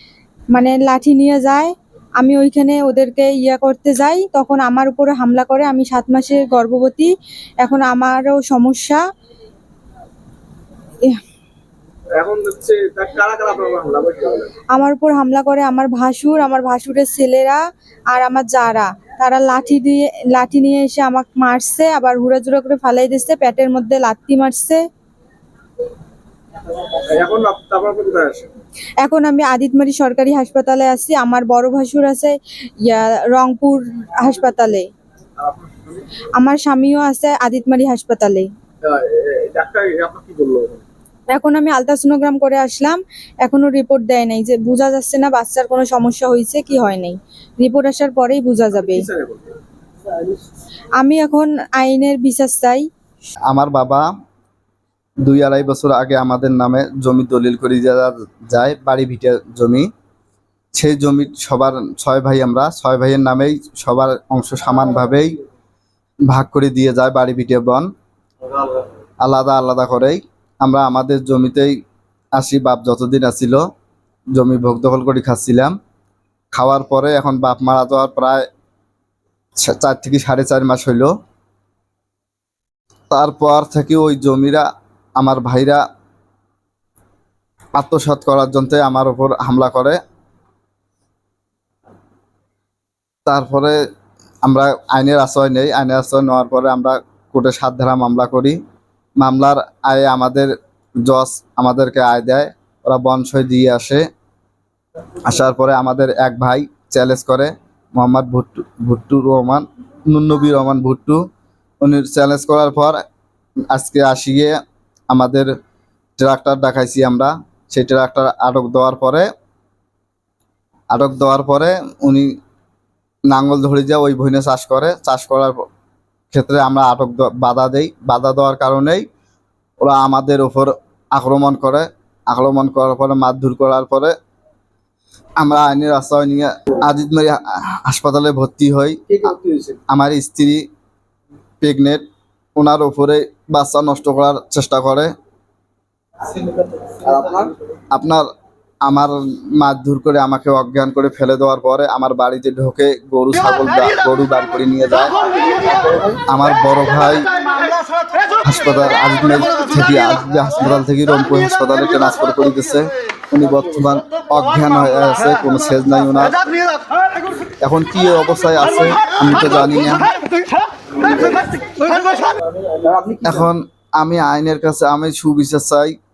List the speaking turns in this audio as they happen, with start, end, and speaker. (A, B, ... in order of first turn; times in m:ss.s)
0:00.5-0:09.0 A
0:12.1-0:14.5 B
0:14.7-0:24.8 A
0:27.1-0:28.5 B
0:29.0-0:34.9 A
0:35.4-0:36.0 B
0:36.4-0:38.5 A
0:38.8-0:40.8 B
0:41.3-0:49.0 A
0:48.8-0:49.5 B
0:51.0-0:52.8 A
0:53.5-0:54.0 C
0:55.2-0:59.9 C
1:00.7-1:05.3 C
1:06.3-1:07.9 C
1:08.5-1:08.8 B
1:09.2-1:11.7 C
1:12.4-1:13.6 C
1:14.3-1:15.7 C
1:16.5-1:18.4 C
1:19.6-1:21.1 C
1:23.1-1:24.6 C
1:25.2-1:25.8 C
1:27.8-1:30.0 C
1:33.2-1:33.8 C
1:34.4-1:38.6 C
1:39.2-1:40.5 C
1:41.0-1:44.0 C
1:45.2-1:51.2 C
1:51.8-1:53.0 C
1:53.7-1:54.5 C
1:55.1-1:55.5 C
1:56.2-1:59.3 C
2:00.9-2:02.3 C
2:03.3-2:05.6 C
2:06.3-2:09.0 C
2:09.8-2:14.1 C
2:15.4-2:19.0 C
2:19.1-2:19.8 B
2:19.9-2:20.6 C
2:21.6-2:22.0 C
2:22.6-2:25.1 C
2:26.2-2:27.5 B
2:27.9-2:28.2 C
2:28.8-2:35.1 C
2:36.3-2:37.3 C
2:38.4-2:46.4 C
2:47.6-2:50.1 C
2:51.0-2:51.8 B
2:52.6-2:53.4 B
2:53.2-2:55.9 C